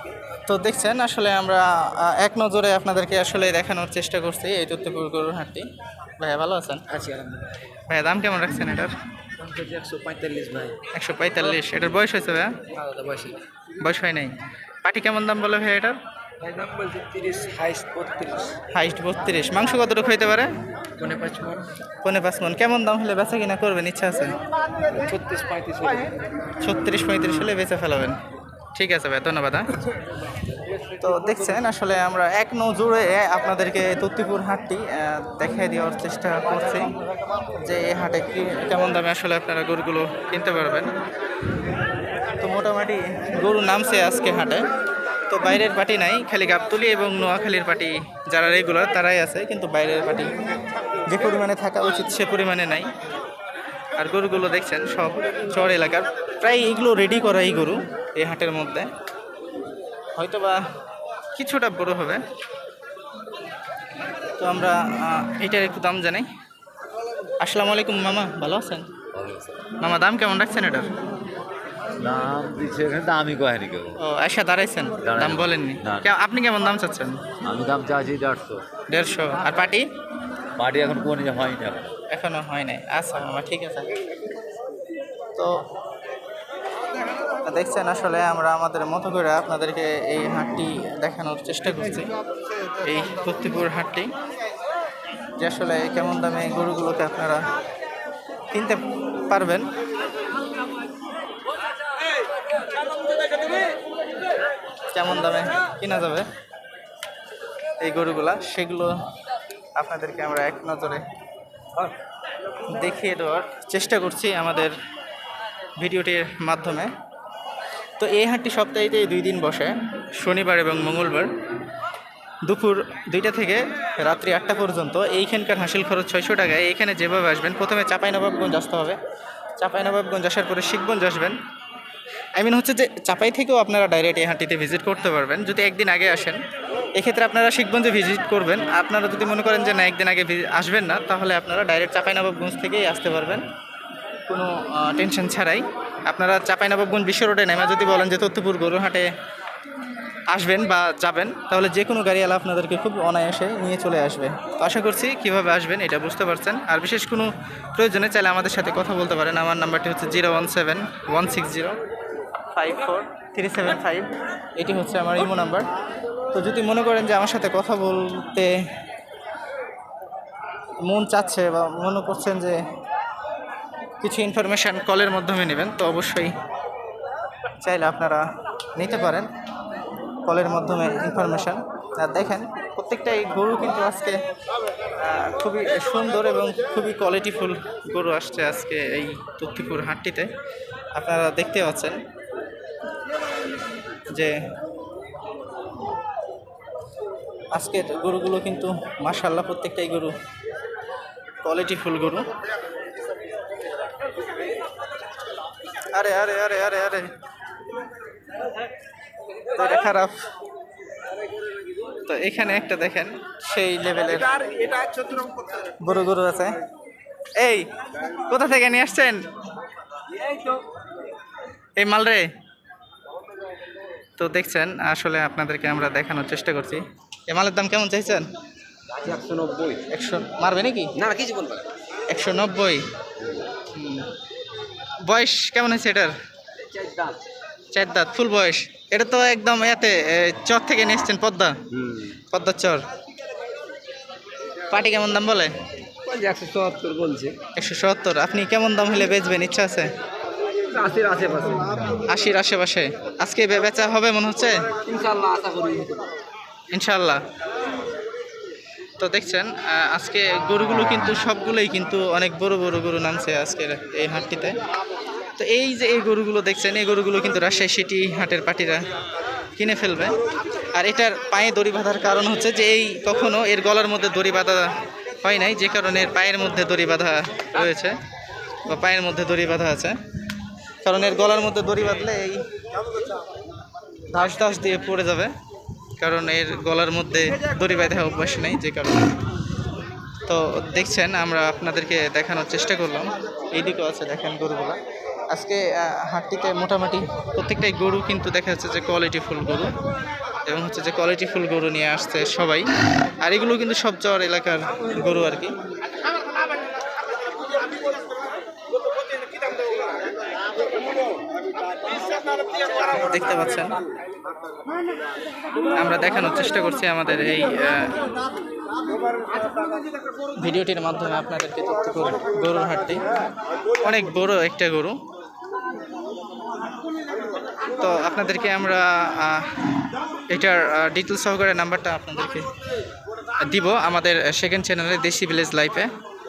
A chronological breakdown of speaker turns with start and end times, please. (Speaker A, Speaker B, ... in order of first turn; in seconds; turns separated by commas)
Speaker A: 0.5-6.8, Speaker B: 6.9-7.7, Speaker A: 7.9-8.9, Speaker B: 9.4-10.8, Speaker A: 10.9-12.6, Speaker B: 12.7-13.4, Speaker A: 13.8-16.0, Speaker B: 16.4-18.6, Speaker A: 18.7-20.5, Speaker B: 21.0-21.7, Speaker A: 22.0-24.4, Speaker B: 24.9-26.1, Speaker A: 26.6-28.2, Speaker A: 28.8-29.7, Speaker A: 31.0-36.9, Speaker A: 37.6-40.9, Speaker A: 42.4-44.6, Speaker A: 45.3-50.3, Speaker A: 51.1-52.9, Speaker A: 54.0-58.9, Speaker A: 60.2-60.6, Speaker A: 61.4-62.2, Speaker A: 64.4-66.3, Speaker A: 67.4-68.9, Speaker A: 69.8-70.9, Speaker C: 72.0-73.8, Speaker A: 74.0-77.2, Speaker C: 77.5-78.6, Speaker A: 78.9-79.8, Speaker C: 80.6-81.9, Speaker A: 82.1-83.9, Speaker A: 87.5-92.1, Speaker A: 92.8-94.1, Speaker A: 95.4-97.4, Speaker A: 98.5-99.7, Speaker A: 104.9-106.3, Speaker A: 107.8-108.9, Speaker A: 109.8-111.0, Speaker A: 112.7-114.7, Speaker A: 115.8-116.9, Speaker A: 118.0-121.3, Speaker A: 122.5-129.0, Speaker A: 129.6-131.4, Speaker A: 132.4-136.4, Speaker A: 137.0-143.4, Speaker A: 144.3-149.1, Speaker A: 150.3-161.8, Speaker A: 162.5-165.7, Speaker A: 166.3-168.5, Speaker A: 170.8-172.6, Speaker A: 174.0-176.3, Speaker A: 177.6-178.2, Speaker A: 178.8-179.3, Speaker A: 180.3-184.2, Speaker A: 185.0-190.3, Speaker A: 190.9-192.0, Speaker A: 197.6-200.1, Speaker A: 201.4-202.2, Speaker A: 205.9-207.1, Speaker A: 209.5-210.2, Speaker A: 212.1-214.3, Speaker A: 215.8-216.6, Speaker A: 217.4-217.7, Speaker A: 218.3-219.2, Speaker A: 221.8-222.3, Speaker A: 224.2-228.2, Speaker B: 228.9-229.8, Speaker A: 229.9-230.9, Speaker B: 231.0-231.7, Speaker A: 232.1-232.8, Speaker A: 233.7-234.1, Speaker A: 235.1-236.1, Speaker B: 236.6-237.2, Speaker A: 237.7-241.6, Speaker B: 241.7-242.1, Speaker A: 242.3-242.8, Speaker A: 244.7-245.6, Speaker B: 246.0-247.4, Speaker A: 247.6-249.9, Speaker B: 250.7-252.0, Speaker A: 252.1-254.6, Speaker B: 254.8-256.1, Speaker A: 256.7-257.2, Speaker A: 259.0-264.5, Speaker A: 265.4-268.8, Speaker A: 269.6-270.2, Speaker A: 270.8-278.0, Speaker A: 278.7-280.0, Speaker A: 280.9-282.4, Speaker A: 284.1-285.3, Speaker A: 286.0-289.1, Speaker A: 290.3-294.8, Speaker A: 295.3-299.7, Speaker A: 300.5-302.7, Speaker A: 303.2-305.5, Speaker A: 312.9-313.8, Speaker A: 315.8-318.0, Speaker A: 320.4-323.0, Speaker A: 323.8-325.0, Speaker A: 327.8-329.5, Speaker A: 330.3-332.5, Speaker A: 333.4-335.9